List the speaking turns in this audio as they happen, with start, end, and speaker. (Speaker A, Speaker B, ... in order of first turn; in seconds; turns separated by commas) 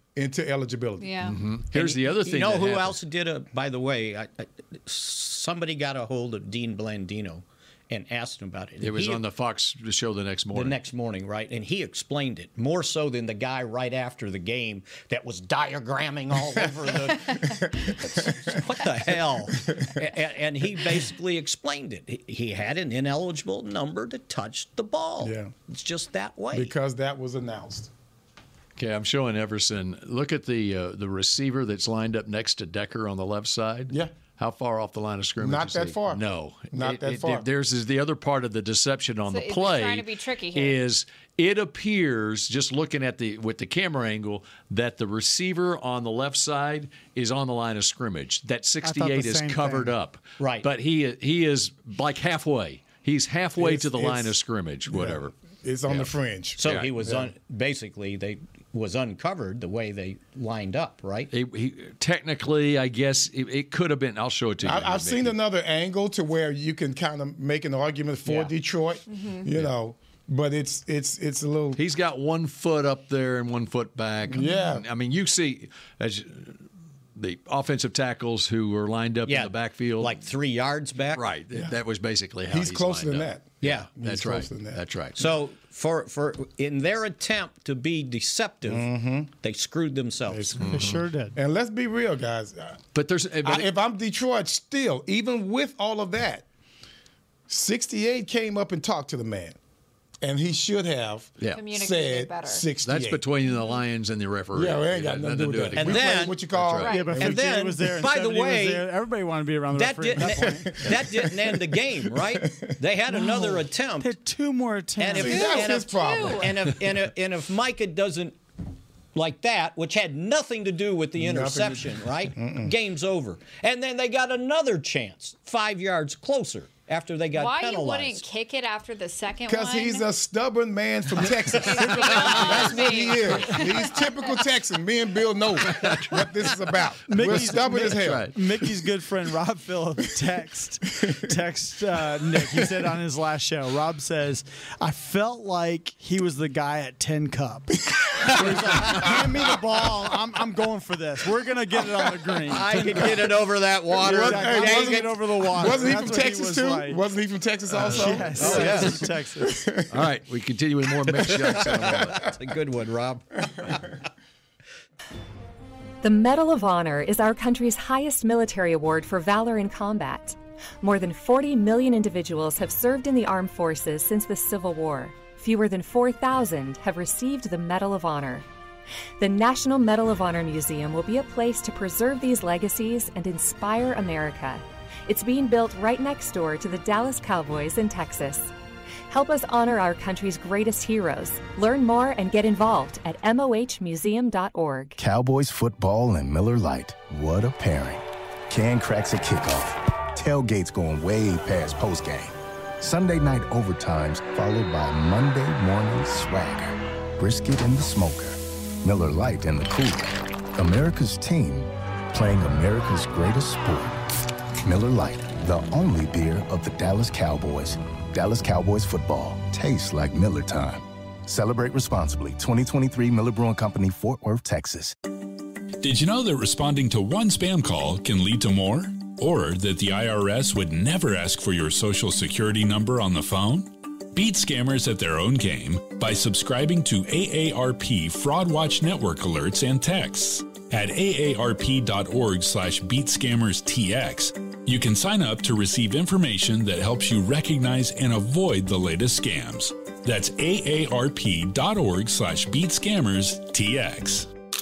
Speaker A: 0.2-1.2, Speaker B: 1.0-1.4, Speaker C: 1.2-3.0, Speaker D: 1.7-9.2, Speaker C: 8.8-10.8, Speaker D: 10.5-26.8, Speaker A: 16.6-18.6, Speaker A: 19.5-20.0, Speaker A: 25.2-25.5, Speaker A: 26.5-27.9, Speaker C: 28.8-55.3, Speaker A: 33.9-34.1, Speaker A: 35.4-37.5, Speaker B: 39.3-40.8, Speaker E: 48.8-50.0, Speaker D: 50.4-50.7, Speaker A: 53.6-54.4, Speaker A: 54.9-57.3, Speaker C: 55.9-56.9, Speaker D: 56.6-61.3, Speaker C: 61.3-65.4, Speaker A: 64.6-71.8, Speaker B: 69.1-69.5, Speaker C: 71.8-76.6, Speaker A: 74.3-74.8, Speaker C: 77.2-80.2, Speaker D: 79.3-81.2, Speaker C: 81.1-85.2, Speaker A: 82.5-84.8, Speaker D: 85.2-90.5, Speaker A: 88.7-89.3, Speaker A: 90.3-92.8, Speaker C: 90.6-91.0, Speaker E: 90.7-91.4, Speaker C: 92.9-93.7, Speaker A: 93.4-96.5, Speaker A: 97.5-99.6, Speaker A: 100.2-103.2, Speaker C: 101.4-101.6, Speaker B: 101.5-102.7, Speaker C: 102.8-107.1, Speaker B: 103.5-103.8, Speaker A: 104.5-107.8, Speaker D: 105.8-106.4, Speaker B: 106.8-107.1, Speaker E: 106.8-110.8, Speaker D: 107.2-108.9, Speaker D: 109.7-114.2, Speaker A: 110.2-112.8, Speaker E: 113.1-115.6, Speaker D: 115.0-118.4, Speaker A: 115.2-116.8, Speaker B: 115.2-116.5, Speaker D: 119.2-128.2, Speaker A: 121.2-122.7, Speaker B: 127.3-130.1, Speaker A: 129.5-138.3, Speaker B: 131.3-133.8, Speaker D: 131.9-132.6, Speaker C: 135.6-136.4, Speaker E: 137.1-157.0, Speaker C: 137.2-138.7, Speaker D: 152.4-155.2, Speaker A: 154.0-160.1, Speaker C: 157.7-159.1, Speaker E: 157.8-159.8, Speaker D: 158.3-159.1, Speaker C: 159.9-162.2, Speaker A: 161.1-161.9, Speaker D: 161.6-163.5, Speaker F: 166.0-178.5, Speaker F: 179.2-188.5, Speaker F: 189.1-195.0, Speaker G: 195.0-214.0, Speaker G: 214.6-224.9, Speaker H: 225.8-254.3